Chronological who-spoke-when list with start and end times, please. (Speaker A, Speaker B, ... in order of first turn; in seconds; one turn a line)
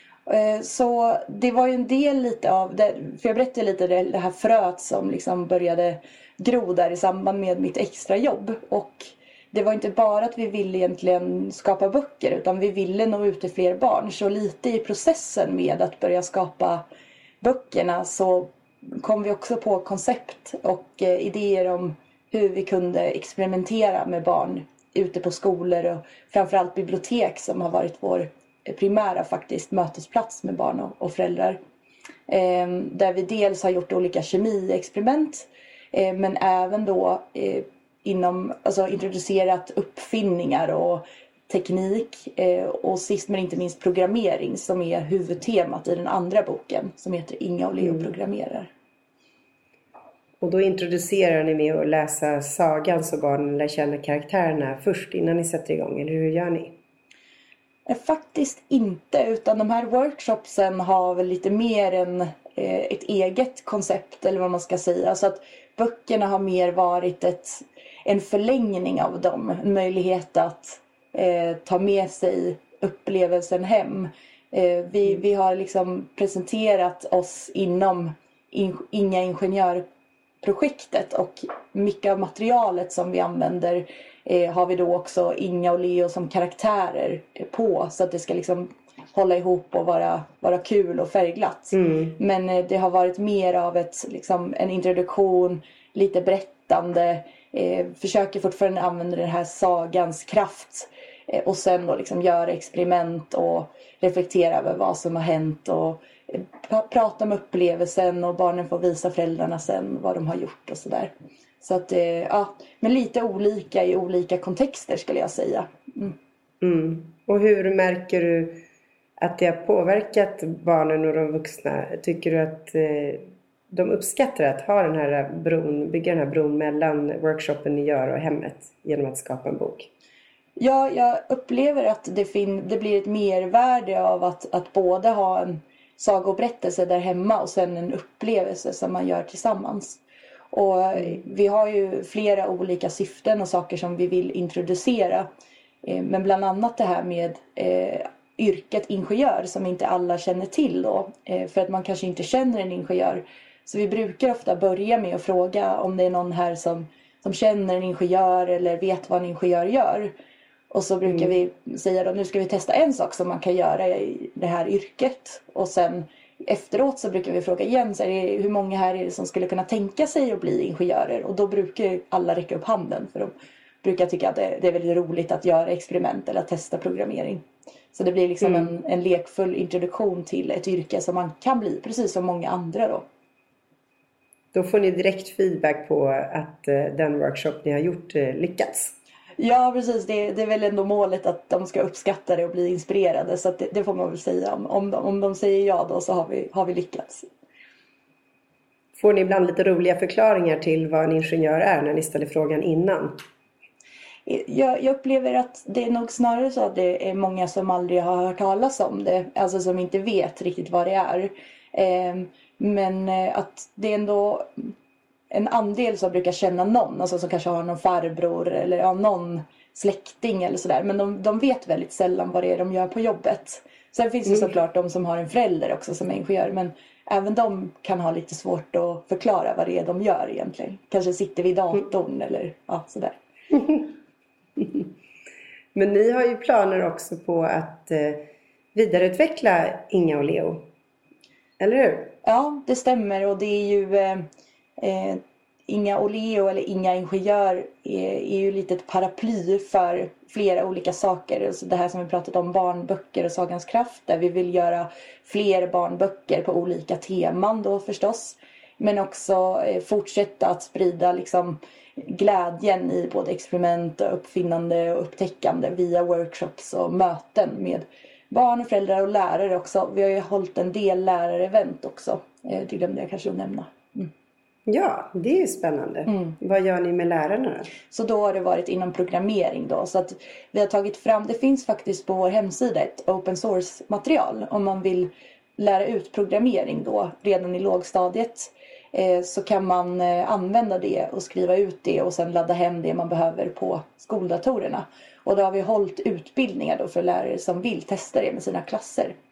Speaker A: 0.2-16.8
Speaker A: 17.4-31.6
Speaker A: 32.3-48.7
Speaker B: 50.4-56.7
Speaker A: 57.9-79.8
Speaker A: 80.4-116.1
Speaker B: 91.7-92.1
Speaker B: 116.6-118.6
Speaker B: 119.2-129.9
Speaker A: 130.6-145.2
Speaker A: 145.8-160.1
Speaker A: 160.7-183.0
Speaker B: 178.4-178.7
Speaker B: 184.5-188.9
Speaker A: 189.4-197.3
Speaker B: 198.9-203.2
Speaker A: 204.2-214.7
Speaker A: 215.3-233.2
Speaker B: 235.7-240.7
Speaker B: 241.6-242.1
Speaker A: 242.2-244.2
Speaker A: 244.8-274.1
Speaker B: 274.7-277.7
Speaker A: 276.1-276.3
Speaker A: 277.9-299.1